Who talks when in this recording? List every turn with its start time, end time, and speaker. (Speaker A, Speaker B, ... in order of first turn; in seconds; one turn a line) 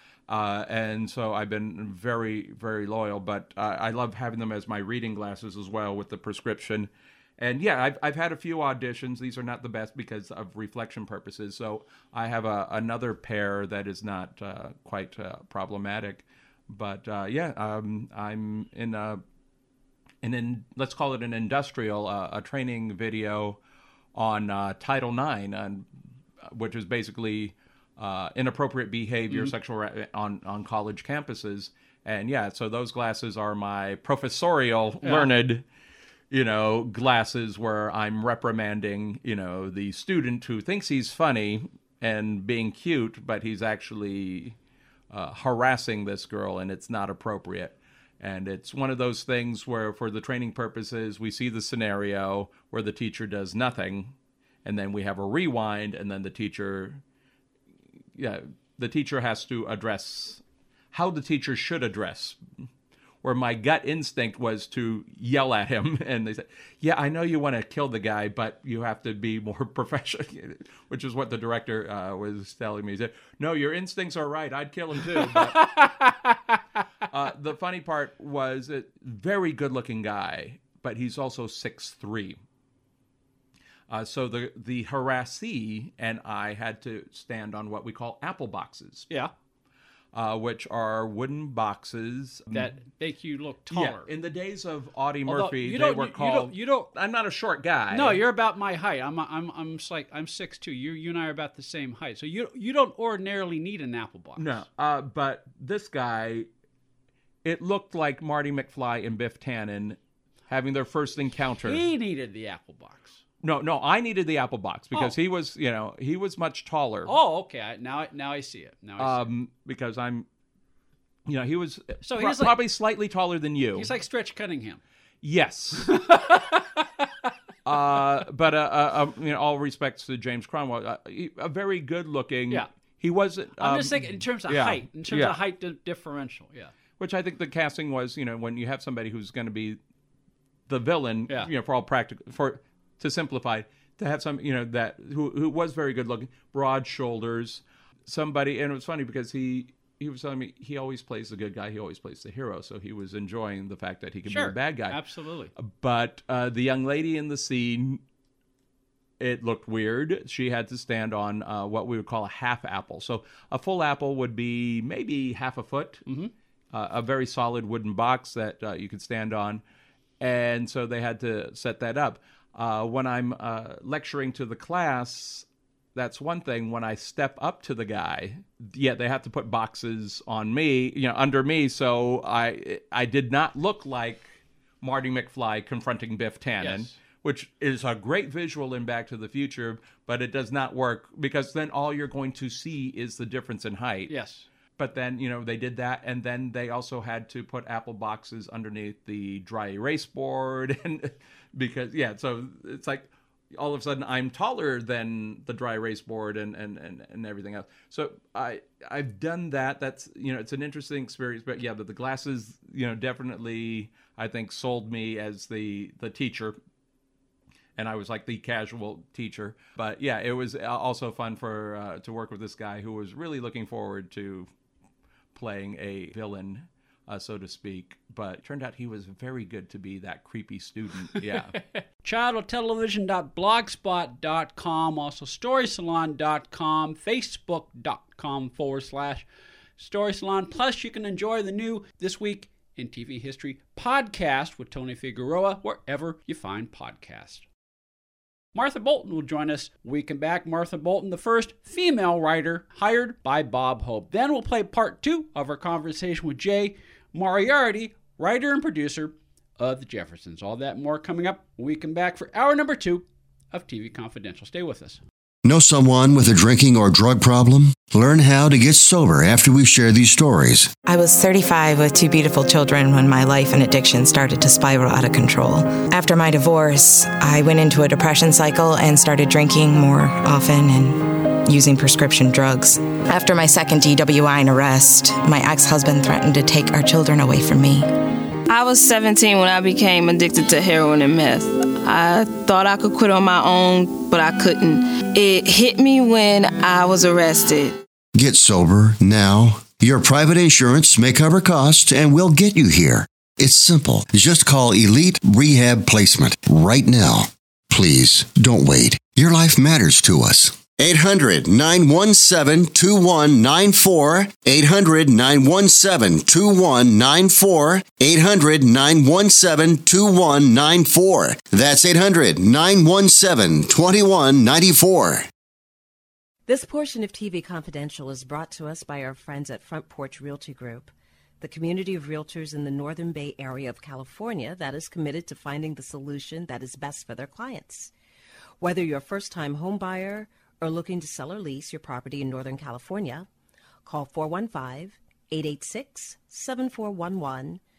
Speaker A: 0.3-19.2
Speaker A: 20.2-23.6
Speaker A: 24.1-25.9
Speaker A: 26.5-35.6
Speaker B: 35.0-35.3
Speaker A: 36.3-44.6
Speaker A: 45.1-57.0
Speaker A: 58.2-62.4
Speaker A: 63.2-75.7
Speaker B: 75.0-76.8
Speaker A: 77.1-82.4
Speaker A: 83.9-89.1
Speaker A: 90.1-92.7
Speaker B: 92.5-94.1
Speaker A: 93.7-98.2
Speaker B: 95.2-96.9
Speaker B: 97.9-104.7
Speaker A: 104.4-106.5
Speaker A: 107.5-111.8
Speaker B: 111.6-113.2
Speaker A: 113.4-117.1
Speaker B: 114.9-115.2
Speaker B: 117.0-119.4
Speaker A: 119.0-120.3
Speaker A: 121.3-123.9
Speaker B: 122.0-122.8
Speaker B: 123.7-124.8
Speaker A: 125.2-125.9
Speaker B: 125.8-128.0
Speaker A: 127.7-135.4
Speaker B: 133.6-136.7
Speaker A: 137.0-139.8
Speaker A: 140.7-155.0
Speaker B: 154.3-155.5
Speaker A: 155.6-158.0
Speaker A: 159.2-166.1
Speaker B: 166.1-166.3
Speaker A: 166.7-169.6
Speaker A: 170.2-194.1
Speaker B: 186.6-187.0
Speaker B: 194.1-194.5
Speaker A: 194.8-216.6
Speaker A: 217.8-224.5
Speaker A: 225.3-231.6
Speaker B: 231.1-247.4
Speaker B: 248.5-265.0
Speaker C: 265.4-270.7
Speaker D: 270.9-287.9
Speaker E: 288.5-297.7
Speaker C: 298.2-325.3
Speaker F: 326.5-337.9
Speaker F: 338.6-343.3
Speaker F: 343.9-347.6